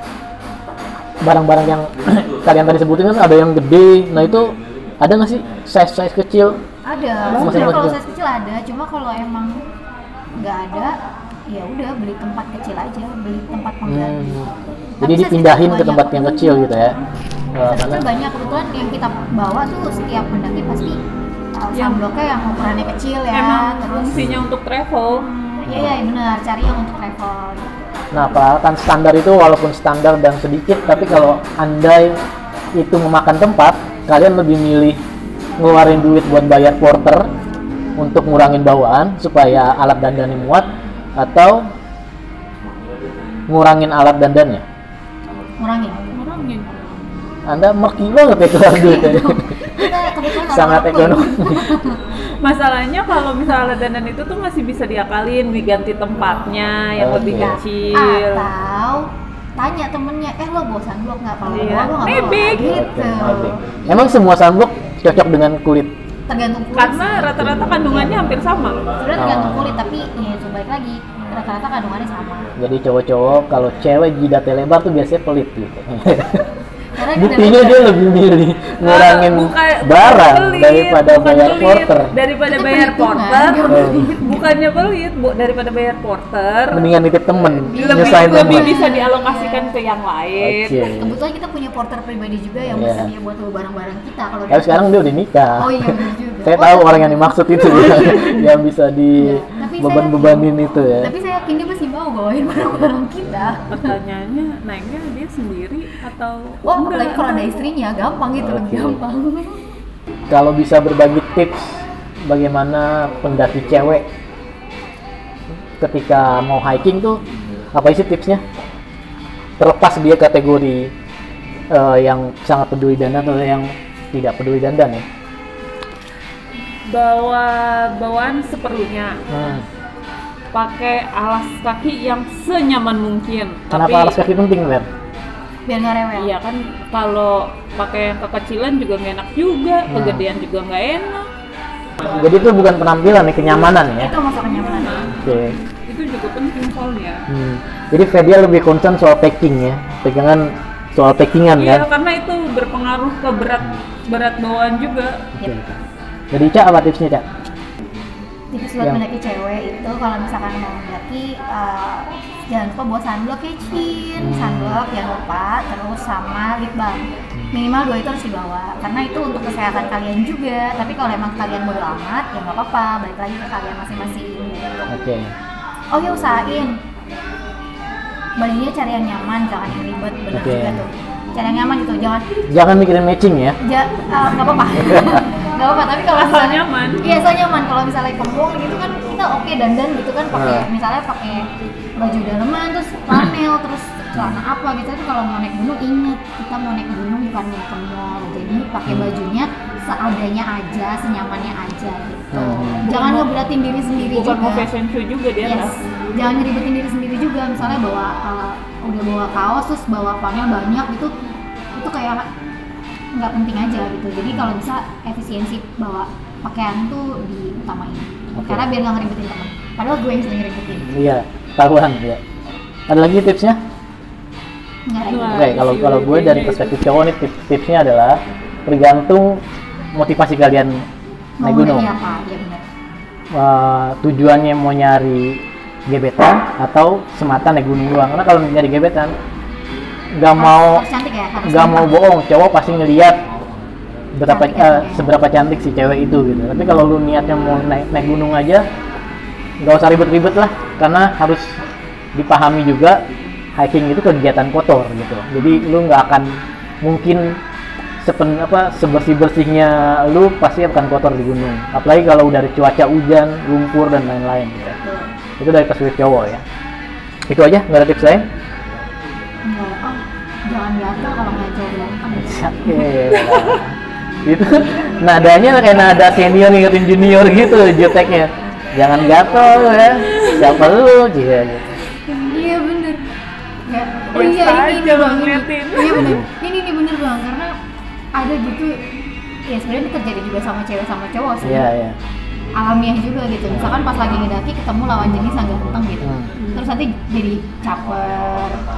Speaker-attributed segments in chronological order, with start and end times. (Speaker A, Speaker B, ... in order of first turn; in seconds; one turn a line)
Speaker A: 1.2-6.6
Speaker B: 6.8-9.6
Speaker C: 7.3-7.8
Speaker A: 7.3-8.0
Speaker B: 10.3-10.9
Speaker B: 11.5-14.5
Speaker A: 13.8-14.5
Speaker B: 15.0-17.0
Speaker A: 15.0-16.9
Speaker A: 17.5-18.0
Speaker B: 17.6-21.0
Speaker B: 21.6-24.2
Speaker C: 21.7-22.0
Speaker C: 23.3-25.2
Speaker A: 24.1-24.5
Speaker B: 25.1-27.9
Speaker A: 25.7-25.9
Speaker A: 28.1-32.2
Speaker A: 32.8-35.0
Speaker A: 35.6-37.3
Speaker A: 38.0-41.6
Speaker A: 43.5-44.6
Speaker B: 45.6-46.5
Speaker C: 46.3-46.7
Speaker A: 47.5-51.7
Speaker B: 48.7-52.0
Speaker C: 52.4-58.5
Speaker A: 57.0-57.6
Speaker B: 57.1-64.2
Speaker C: 61.5-62.7
Speaker A: 62.7-65.9
Speaker B: 66.3-68.1
Speaker C: 66.8-68.8
Speaker A: 67.3-67.7
Speaker B: 69.0-72.5
Speaker A: 69.2-69.8
Speaker A: 72.6-76.5
Speaker B: 76.9-78.0
Speaker A: 77.1-82.1
Speaker C: 78.8-86.8
Speaker B: 82.5-84.4
Speaker A: 83.7-84.2
Speaker A: 86.7-88.8
Speaker B: 87.7-89.7
Speaker C: 87.7-90.8
Speaker A: 90.4-91.2
Speaker B: 90.9-94.8
Speaker A: 92.7-93.1
Speaker A: 94.5-101.1
Speaker B: 95.6-98.3
Speaker C: 97.7-98.4
Speaker B: 99.2-100.5
Speaker B: 101.0-103.9
Speaker C: 103.7-107.6
Speaker B: 106.6-109.6
Speaker A: 108.4-109.0
Speaker A: 110.3-114.1
Speaker A: 115.8-117.2
Speaker A: 117.7-118.4
Speaker A: 119.6-120.9
Speaker A: 121.7-125.0
Speaker C: 126.8-129.2
Speaker A: 129.3-129.7
Speaker C: 130.5-134.2
Speaker A: 133.7-134.9
Speaker B: 135.7-136.3
Speaker C: 136.2-141.3
Speaker A: 139.9-140.2
Speaker A: 142.0-144.1
Speaker B: 143.8-145.2
Speaker C: 144.6-147.2
Speaker A: 145.2-145.6
Speaker A: 147.3-151.8
Speaker C: 151.6-155.2
Speaker A: 155.4-155.8
Speaker A: 156.3-157.2
Speaker B: 158.5-174.9
Speaker A: 164.2-164.8
Speaker A: 174.9-175.3
Speaker B: 175.9-176.8
Speaker B: 178.4-182.2
Speaker A: 180.3-180.8
Speaker A: 182.5-183.6
Speaker B: 183.6-191.4
Speaker A: 184.8-185.2
Speaker C: 186.1-187.2
Speaker A: 190.3-190.7
Speaker B: 192.0-204.7
Speaker A: 194.2-194.4
Speaker A: 198.9-199.1
Speaker A: 202.3-202.9
Speaker C: 202.8-203.3
Speaker C: 204.0-205.7
Speaker B: 205.4-211.1
Speaker B: 211.7-212.2
Speaker B: 213.1-220.9
Speaker A: 218.3-218.7
Speaker A: 220.8-222.2
Speaker A: 222.9-223.6
Speaker B: 224.9-225.6
Speaker C: 225.1-226.8
Speaker A: 225.3-229.4
Speaker A: 229.9-230.8
Speaker B: 231.4-232.6
Speaker A: 231.4-231.9
Speaker A: 233.3-239.1
Speaker A: 240.2-240.8
Speaker B: 240.3-242.0
Speaker A: 241.4-243.2
Speaker A: 244.1-248.7
Speaker B: 244.3-245.1
Speaker A: 249.6-251.6
Speaker A: 252.1-253.0
Speaker A: 253.6-257.4
Speaker A: 258.0-264.8
Speaker B: 264.8-265.1
Speaker A: 265.4-266.4
Speaker A: 267.3-268.3
Speaker B: 269.5-272.9
Speaker A: 272.1-281.6
Speaker C: 273.1-273.6
Speaker C: 280.0-280.6
Speaker B: 282.1-283.1
Speaker B: 283.7-287.5
Speaker C: 284.1-286.1
Speaker A: 285.9-286.3
Speaker B: 288.1-288.7
Speaker B: 289.5-291.7
Speaker A: 291.4-292.0
Speaker B: 292.6-298.6
Speaker A: 296.0-296.3